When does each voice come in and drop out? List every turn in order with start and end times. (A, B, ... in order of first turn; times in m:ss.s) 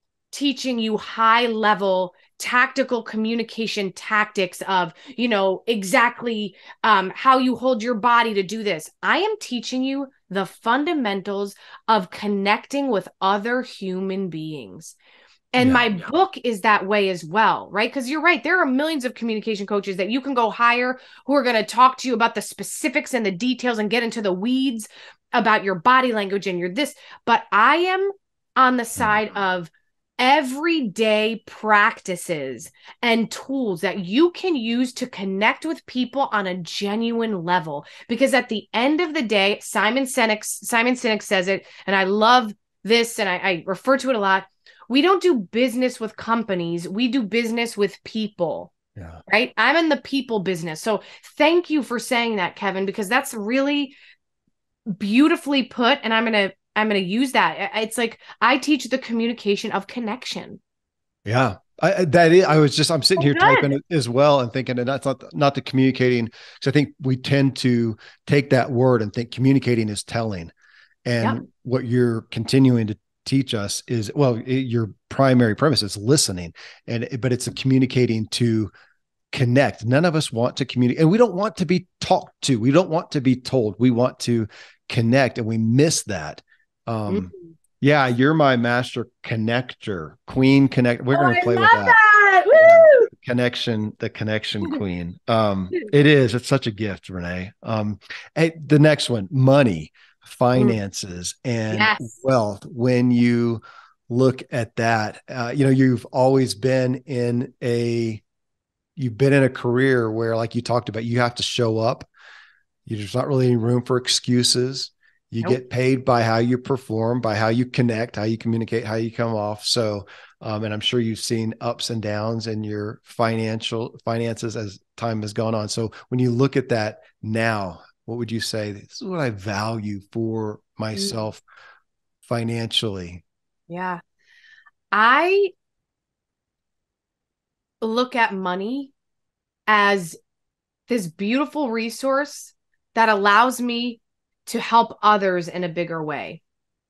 0:00.3-0:15.0 A
0:15.5-0:48.7 A
0:15.6-0:15.8 B
0:49.0-0:49.2 B
0:49.3-0:54.0 A
0:54.9-1:00.6 A
1:01.3-1:10.5 B
1:03.2-1:03.7 A
1:11.1-1:18.7 B
1:19.3-1:32.0 B
1:31.1-1:33.1 A
1:32.5-1:48.2 B
1:41.7-1:42.1 A
1:49.0-1:52.1 B
1:52.9-2:11.4 B
2:12.2-2:13.2 B
2:13.7-2:14.0 A
2:14.9-2:15.5 A
2:17.8-2:18.9 A
2:19.7-2:20.2 A
2:20.9-2:26.4 A